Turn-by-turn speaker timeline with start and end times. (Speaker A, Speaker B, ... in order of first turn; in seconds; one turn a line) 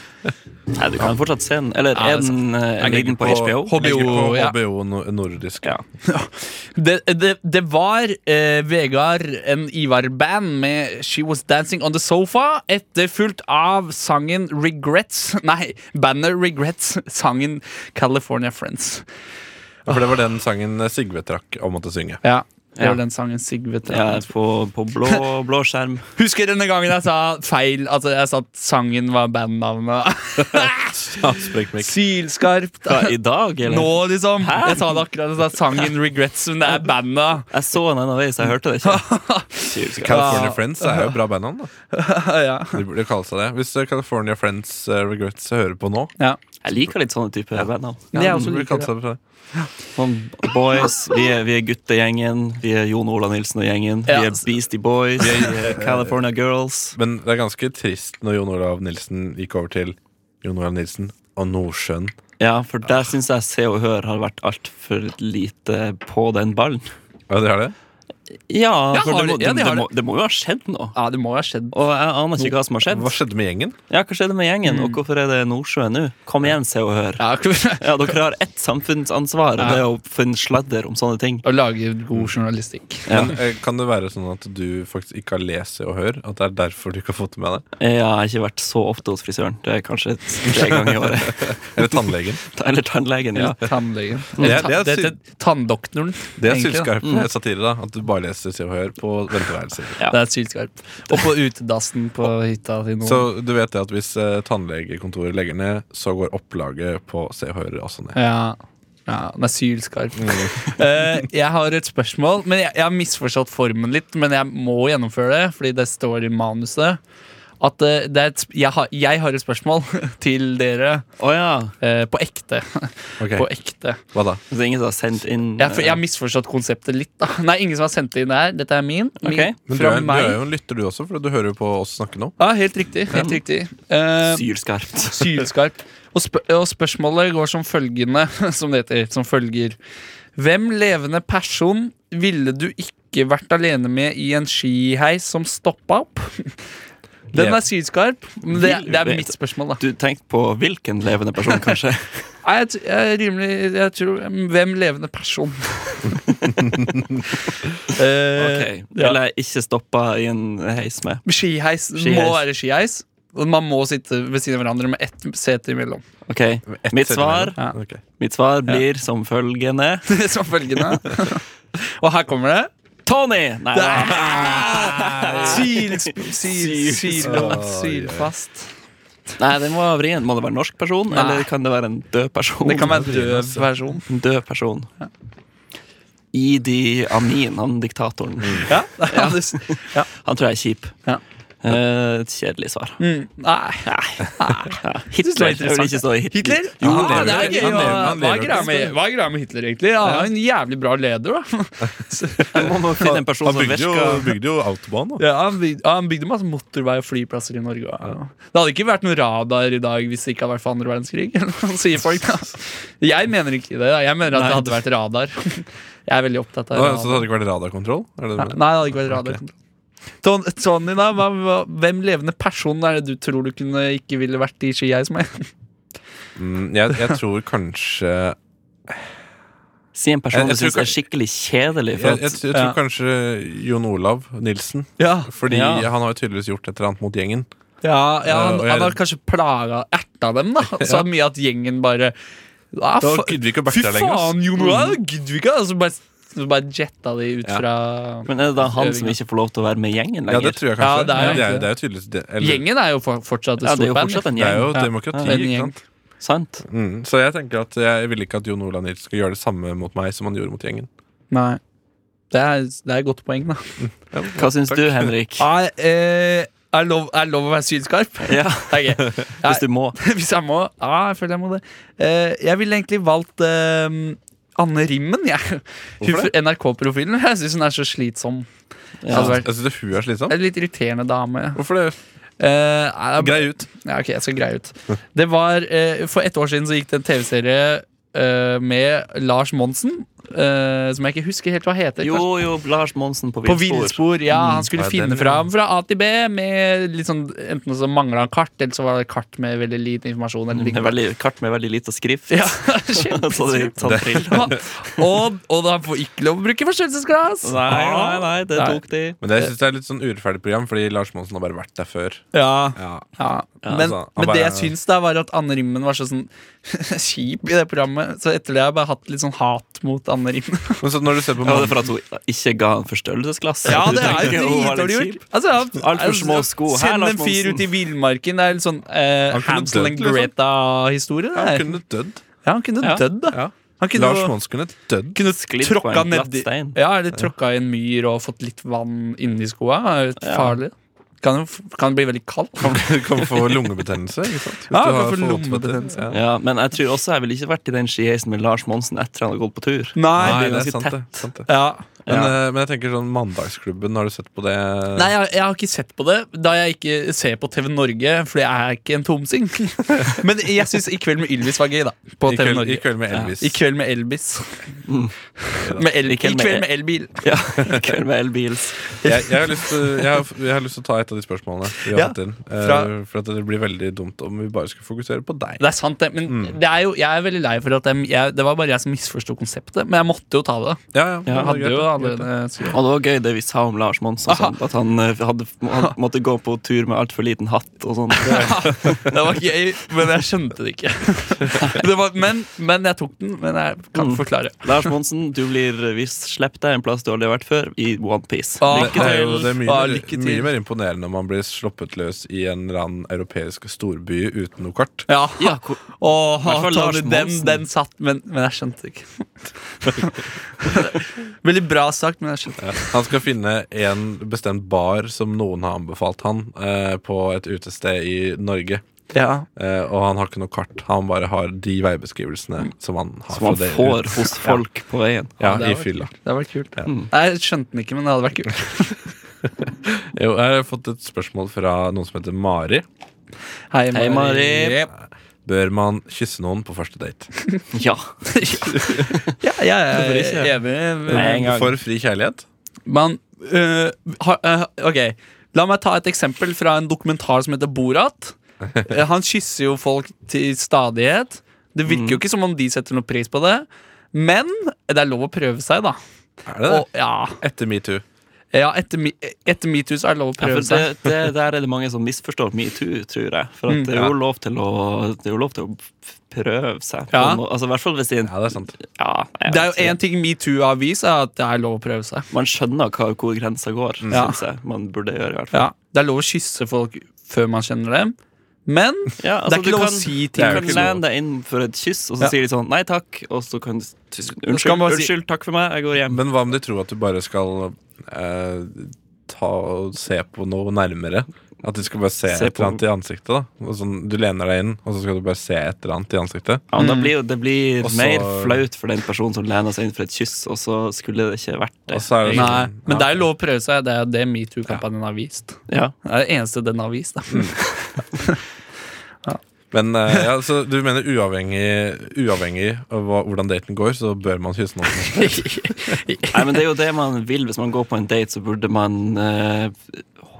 Speaker A: 0.8-4.1
Speaker B: 1.9-4.6
Speaker C: 2.9-5.8
Speaker B: 6.0-19.1
Speaker C: 19.9-22.2
Speaker B: 22.2-24.3
Speaker A: 23.9-26.1
Speaker B: 26.2-31.0
Speaker C: 30.5-31.9
Speaker B: 31.8-33.1
Speaker A: 32.9-35.0
Speaker B: 33.7-37.5
Speaker A: 37.5-40.5
Speaker B: 38.9-41.2
Speaker C: 40.0-41.7
Speaker B: 41.9-42.8
Speaker C: 42.7-46.2
Speaker A: 46.6-48.3
Speaker C: 47.5-49.2
Speaker B: 48.1-48.9
Speaker A: 50.0-57.0
Speaker B: 54.1-54.5
Speaker C: 55.2-56.2
Speaker C: 57.0-62.1
Speaker A: 62.4-66.9
Speaker C: 67.3-67.8
Speaker A: 68.5-71.0
Speaker B: 68.9-69.9
Speaker B: 71.0-71.8
Speaker A: 71.7-73.2
Speaker C: 72.9-73.8
Speaker A: 73.9-81.5
Speaker B: 74.7-75.0
Speaker B: 77.2-78.2
Speaker B: 79.6-79.8
Speaker B: 81.4-83.1
Speaker A: 83.1-83.3
Speaker C: 83.1-87.7
Speaker A: 87.8-93.6
Speaker C: 90.5-92.4
Speaker B: 93.4-96.9
Speaker A: 94.4-94.7
Speaker C: 94.4-95.2
Speaker C: 96.4-100.0
Speaker A: 97.0-97.3
Speaker B: 100.1-103.3
Speaker C: 103.0-108.2
Speaker B: 108.2-117.0
Speaker C: 110.2-110.5
Speaker B: 117.6-121.0
Speaker A: 121.2-121.7
Speaker B: 121.8-124.0
Speaker C: 123.2-123.5
Speaker C: 124.1-124.4
Speaker A: 124.5-126.0
Speaker B: 125.6-130.4
Speaker A: 129.2-129.6
Speaker C: 129.7-132.4
Speaker B: 132.4-134.5
Speaker A: 133.1-133.4
Speaker A: 134.2-135.3
Speaker B: 135.0-139.8
Speaker B: 140.4-146.6
Speaker B: 147.3-149.8
Speaker A: 148.5-152.2
Speaker B: 152.4-156.6
Speaker C: 156.7-157.2
Speaker B: 157.9-159.2
Speaker A: 158.4-161.2
Speaker B: 161.2-166.0
Speaker A: 161.9-162.4
Speaker A: 166.3-167.6
Speaker C: 166.7-168.0
Speaker A: 168.2-170.1
Speaker B: 170.1-172.7
Speaker A: 173.1-177.6
Speaker B: 173.7-178.7
Speaker C: 177.2-178.3
Speaker A: 179.4-183.1
Speaker B: 181.1-181.5
Speaker B: 182.6-184.0
Speaker C: 182.8-183.7
Speaker A: 184.1-184.9
Speaker A: 186.3-190.9
Speaker C: 188.4-188.7
Speaker B: 188.7-190.1
Speaker A: 191.6-193.0
Speaker B: 193.0-202.7
Speaker A: 193.9-198.6
Speaker C: 196.8-198.9
Speaker A: 202.5-204.3
Speaker C: 203.0-205.3
Speaker B: 205.2-217.3
Speaker A: 214.3-214.8
Speaker C: 216.7-219.4
Speaker B: 218.4-219.5
Speaker B: 220.2-225.5
Speaker C: 226.4-228.4
Speaker A: 229.9-232.4
Speaker C: 230.3-231.0
Speaker C: 231.9-237.5
Speaker B: 235.0-235.3
Speaker A: 235.5-235.9
Speaker B: 237.8-242.2
Speaker C: 238.2-239.0
Speaker C: 240.8-241.1
Speaker B: 242.7-249.2
Speaker C: 243.0-244.4
Speaker A: 244.6-245.0
Speaker A: 248.3-251.5
Speaker C: 250.3-252.6
Speaker B: 250.8-251.7
Speaker B: 252.4-255.8
Speaker A: 253.6-255.4
Speaker C: 254.4-255.8
Speaker A: 256.2-256.6
Speaker C: 256.7-260.9
Speaker B: 261.3-261.6
Speaker B: 262.3-263.8
Speaker C: 263.8-265.1
Speaker A: 264.4-265.5
Speaker B: 265.4-278.5
Speaker A: 268.2-270.0
Speaker C: 276.0-276.3
Speaker A: 279.0-279.4
Speaker B: 279.1-279.5
Speaker C: 279.1-280.4
Speaker B: 280.3-281.6
Speaker C: 281.6-282.0
Speaker B: 282.4-292.3
Speaker C: 283.2-283.7
Speaker A: 292.0-294.6
Speaker B: 293.4-301.0
Speaker C: 294.7-295.5
Speaker A: 300.5-305.0
Speaker B: 302.3-308.8
Speaker C: 303.8-304.6
Speaker A: 307.4-309.2
Speaker C: 309.2-313.1
Speaker B: 312.3-320.8
Speaker C: 313.6-314.7
Speaker A: 313.6-313.9
Speaker C: 320.8-321.9
Speaker A: 321.4-327.6
Speaker B: 323.6-331.7
Speaker C: 323.9-324.3
Speaker C: 329.3-330.3
Speaker C: 331.3-332.2
Speaker B: 332.4-334.4
Speaker C: 333.3-335.2
Speaker B: 335.1-343.0
Speaker A: 335.3-336.8
Speaker A: 340.2-340.6
Speaker C: 342.6-346.2
Speaker B: 344.7-346.1
Speaker A: 346.1-351.1
Speaker B: 350.0-350.8
Speaker C: 350.1-351.5
Speaker B: 351.5-351.9
Speaker A: 352.1-352.3
Speaker C: 352.1-355.1
Speaker B: 354.9-364.8
Speaker C: 362.2-363.6
Speaker A: 364.9-365.1
Speaker B: 365.4-367.2
Speaker A: 366.0-368.9
Speaker C: 369.0-375.7
Speaker B: 371.9-372.9
Speaker B: 375.6-382.8
Speaker C: 376.2-376.6
Speaker C: 380.9-382.3
Speaker A: 381.3-381.5
Speaker A: 382.7-389.0
Speaker B: 384.3-384.5
Speaker B: 388.2-394.9
Speaker C: 388.3-389.0
Speaker A: 394.0-399.4
Speaker B: 398.6-400.5
Speaker C: 398.7-405.1
Speaker B: 405.1-412.9
Speaker A: 405.4-407.6
Speaker C: 412.6-418.8
Speaker B: 419.1-419.5
Speaker C: 419.6-424.6
Speaker A: 423.3-425.4
Speaker C: 425.4-426.1
Speaker B: 425.4-429.0
Speaker C: 429.8-432.9
Speaker B: 433.7-434.9
Speaker A: 433.9-434.8
Speaker C: 435.4-437.3
Speaker A: 437.7-438.1
Speaker B: 438.3-441.6
Speaker C: 438.7-439.2
Speaker A: 439.9-440.5
Speaker A: 441.1-441.8
Speaker C: 441.1-442.5
Speaker B: 442.9-456.0
Speaker C: 448.6-449.0
Speaker A: 451.9-452.2
Speaker C: 456.5-458.0
Speaker B: 456.6-457.4
Speaker B: 458.5-460.9
Speaker A: 460.4-470.0
Speaker B: 463.7-463.9
Speaker B: 467.1-467.4
Speaker C: 468.2-468.7
Speaker B: 469.5-472.3
Speaker A: 472.3-475.7
Speaker C: 474.0-474.3
Speaker B: 474.1-474.4
Speaker B: 475.5-480.9
Speaker A: 479.2-486.2
Speaker C: 480.4-481.0
Speaker B: 484.5-485.1
Speaker C: 486.1-496.6
Speaker A: 492.3-492.8
Speaker A: 496.7-502.6
Speaker B: 496.8-497.1
Speaker C: 497.8-498.6
Speaker C: 501.9-503.3
Speaker B: 502.3-508.4
Speaker A: 505.7-505.9
Speaker C: 509.7-515.7
Speaker B: 515.1-516.5
Speaker A: 516.3-520.2